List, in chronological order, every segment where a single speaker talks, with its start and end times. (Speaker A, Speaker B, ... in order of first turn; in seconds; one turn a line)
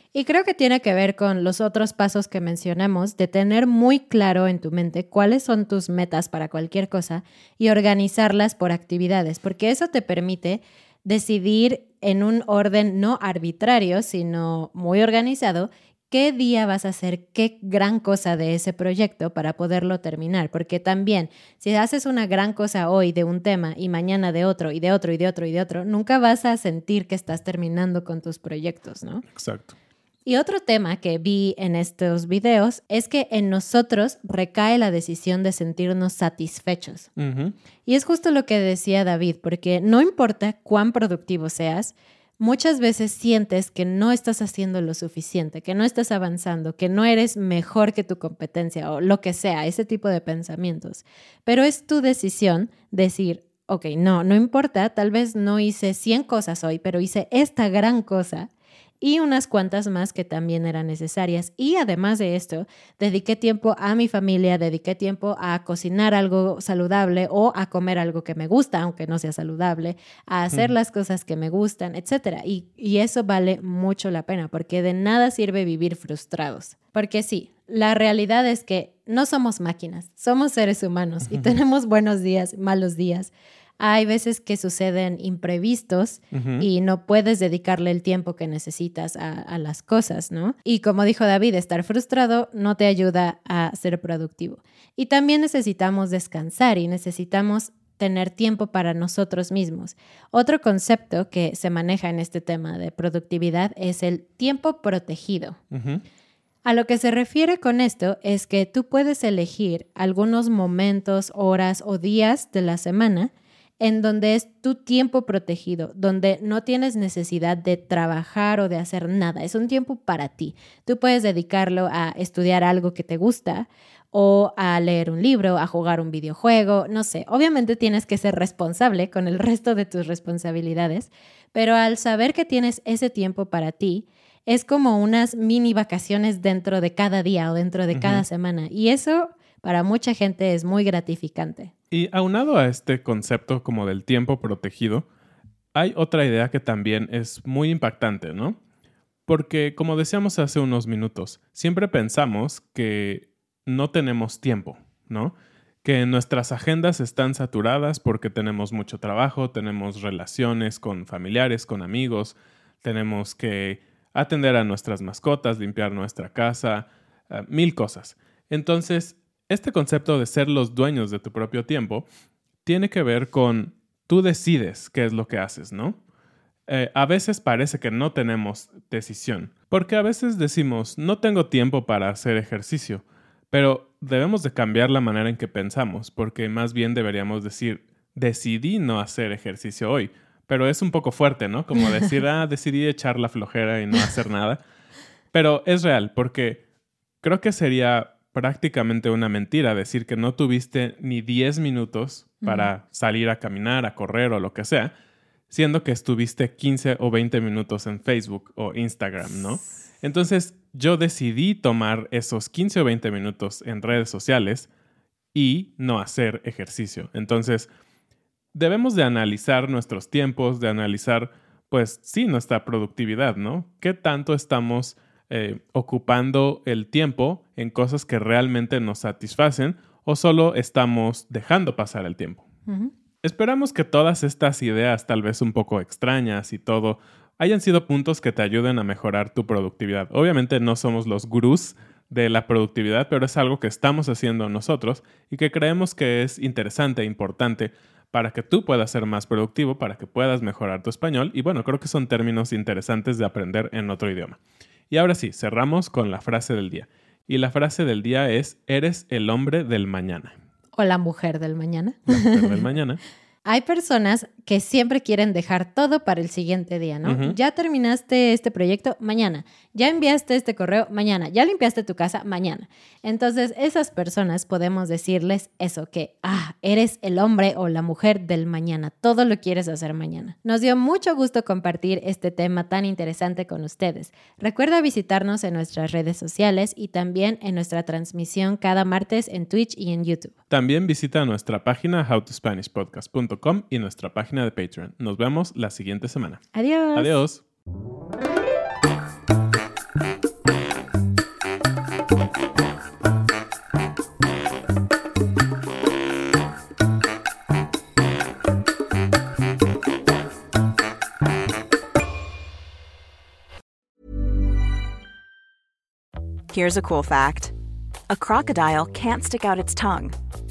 Speaker A: 0.1-29.2
Speaker B: 29.3-29.7
Speaker A: 30.3-37.1
Speaker B: 37.2-37.5
Speaker A: 37.9-58.5
Speaker A: 59.0-105.6
Speaker B: 81.3-81.5
Speaker B: 86.3-86.7
Speaker B: 105.7-106.0
Speaker A: 106.7-141.7
Speaker B: 137.9-138.2
Speaker B: 141.9-145.1
Speaker B: 145.8-148.6
Speaker B: 149.3-172.1
Speaker B: 172.7-176.0
Speaker B: 176.7-194.6
Speaker B: 195.3-196.6
Speaker B: 197.2-204.9
Speaker A: 202.4-202.7
Speaker B: 205.5-214.7
Speaker B: 215.3-217.7
Speaker B: 218.5-232.4
Speaker A: 232.7-232.9
Speaker B: 233.2-254.4
Speaker B: 254.9-260.4
Speaker A: 260.8-262.6
Speaker B: 262.1-263.0
Speaker A: 263.5-290.3
Speaker B: 267.0-267.4
Speaker B: 290.5-297.4
Speaker A: 296.5-297.2
Speaker C: 316.5-317.5
Speaker C: 318.1-320.1